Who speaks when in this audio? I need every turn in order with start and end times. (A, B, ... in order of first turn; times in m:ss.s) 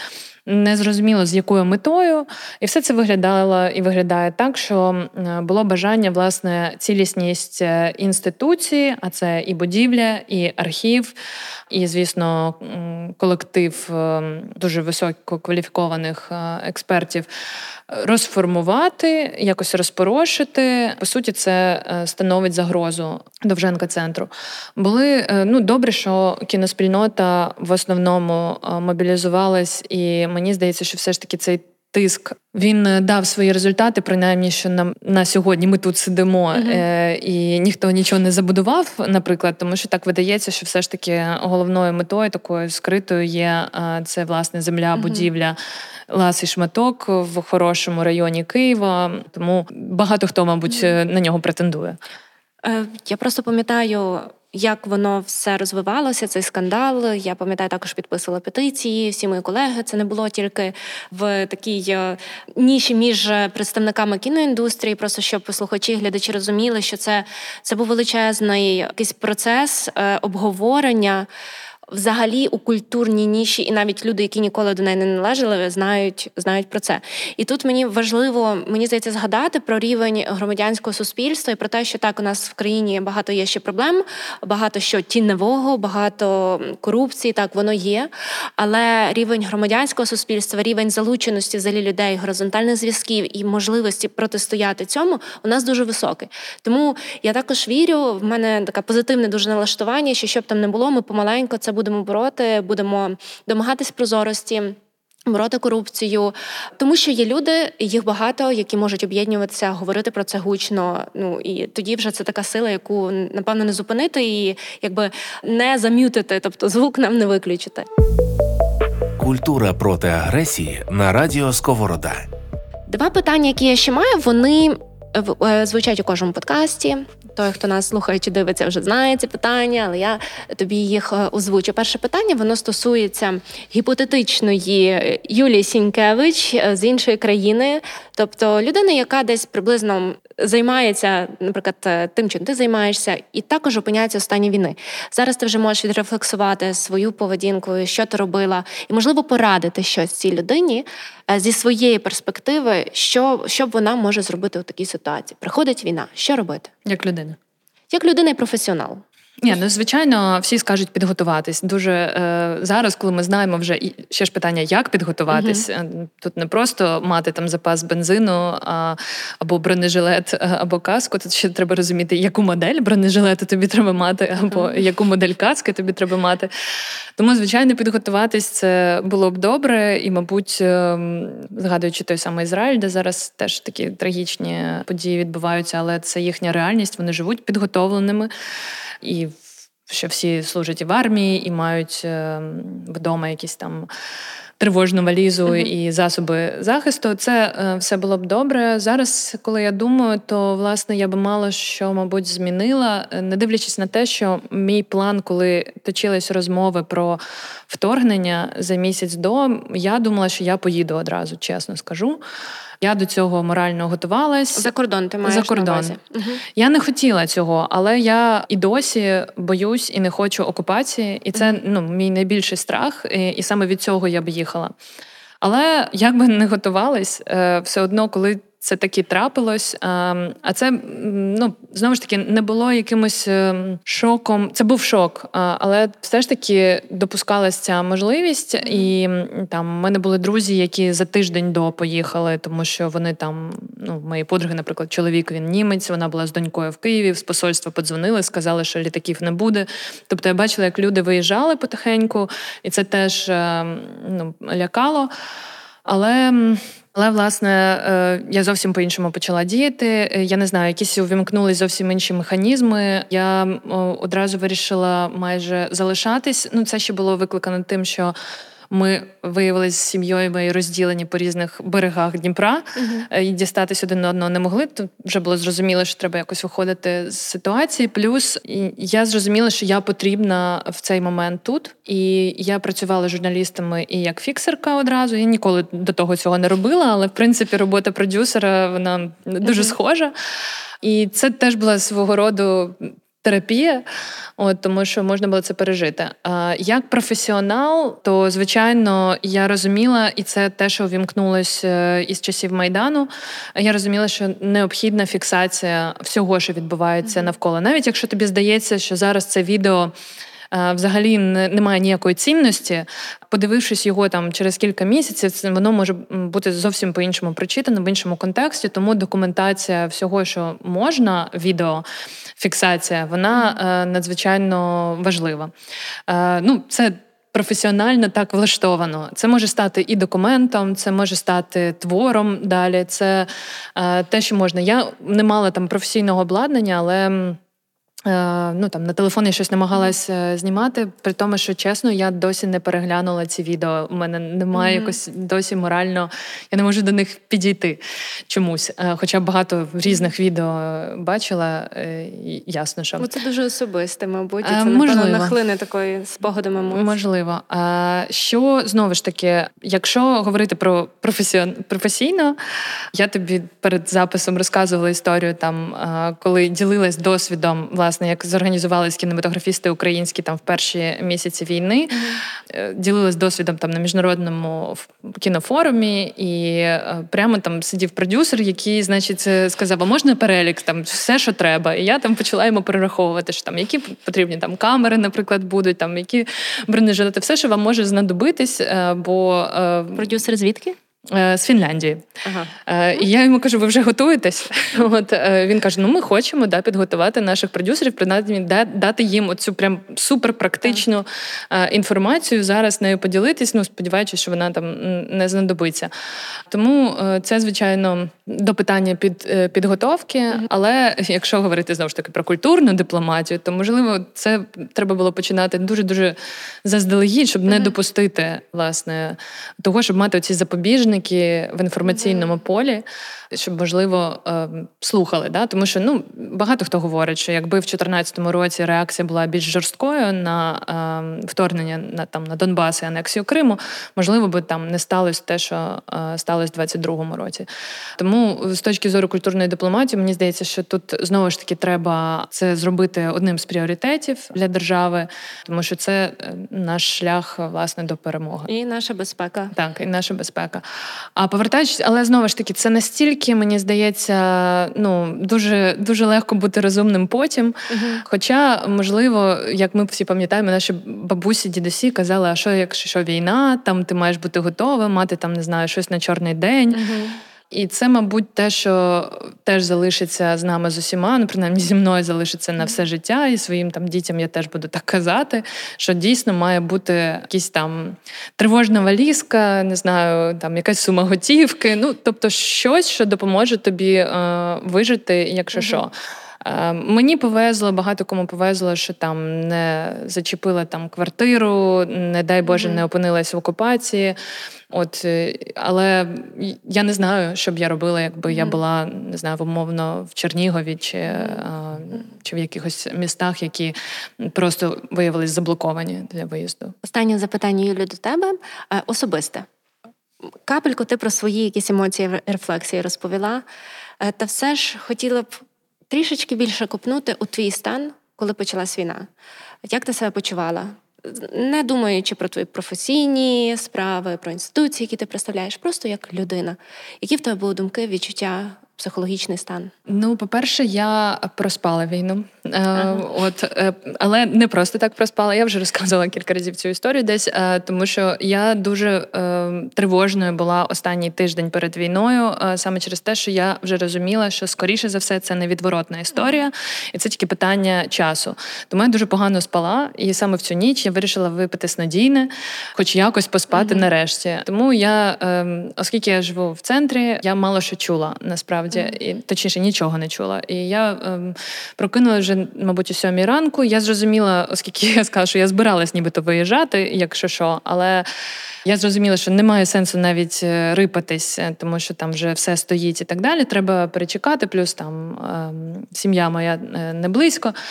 0:00.4-0:11.1 A
0:11.7-0:17.3 A
0:17.9-0:45.6 A
0:36.5-0:36.8 B
0:44.9-0:45.3 B
0:46.1-0:52.0 A
0:52.6-1:11.3 B
1:11.9-1:44.8 B
1:45.3-1:57.8 B
1:59.2-2:02.3 C
2:02.9-2:36.7 B
2:36.8-2:37.4 A
2:37.9-2:39.0 B
2:39.4-2:56.5 A
2:45.3-2:45.6 B
2:57.2-3:08.3 A
3:09.0-3:13.9 A
3:14.6-3:32.2 A
3:32.8-3:34.7 A
3:34.6-3:36.4 B
3:35.2-3:36.0 A
3:36.5-3:44.7 A
3:45.4-4:15.1 A
4:15.8-4:28.1 A
4:28.7-4:50.1 A
4:32.8-4:33.1 B
4:49.4-4:49.7 B
4:50.8-4:53.8 A
4:54.4-5:09.9 A
5:10.5-5:21.8 A
5:22.4-5:25.5 A
5:26.1-5:37.4 A
5:38.0-5:53.1 A
5:44.5-5:44.9 B
5:53.0-5:56.9 B
5:54.4-5:55.3 A
5:56.7-6:02.4 A
6:02.9-6:30.1 A
6:11.9-6:12.2 B
6:29.9-6:30.8 B
6:31.1-6:32.0 A
6:32.2-6:32.5 B
6:32.6-6:45.9 A
6:46.5-7:17.5 A
7:18.0-7:28.5 A
7:28.5-7:29.5 B
7:29.5-7:30.6 A
7:31.2-7:46.8 A
7:37.7-7:38.0 B
7:46.7-7:47.2 B
7:47.5-8:14.2 A
8:12.5-8:12.8 B
8:14.7-8:26.7 A
8:18.3-8:18.6 B
8:21.1-8:21.4 B
8:26.8-8:29.5 B
8:30.4-8:33.4 B
8:34.0-8:39.1 B
8:39.6-8:49.7 B
8:49.9-9:28.0 A
9:28.6-9:37.5 A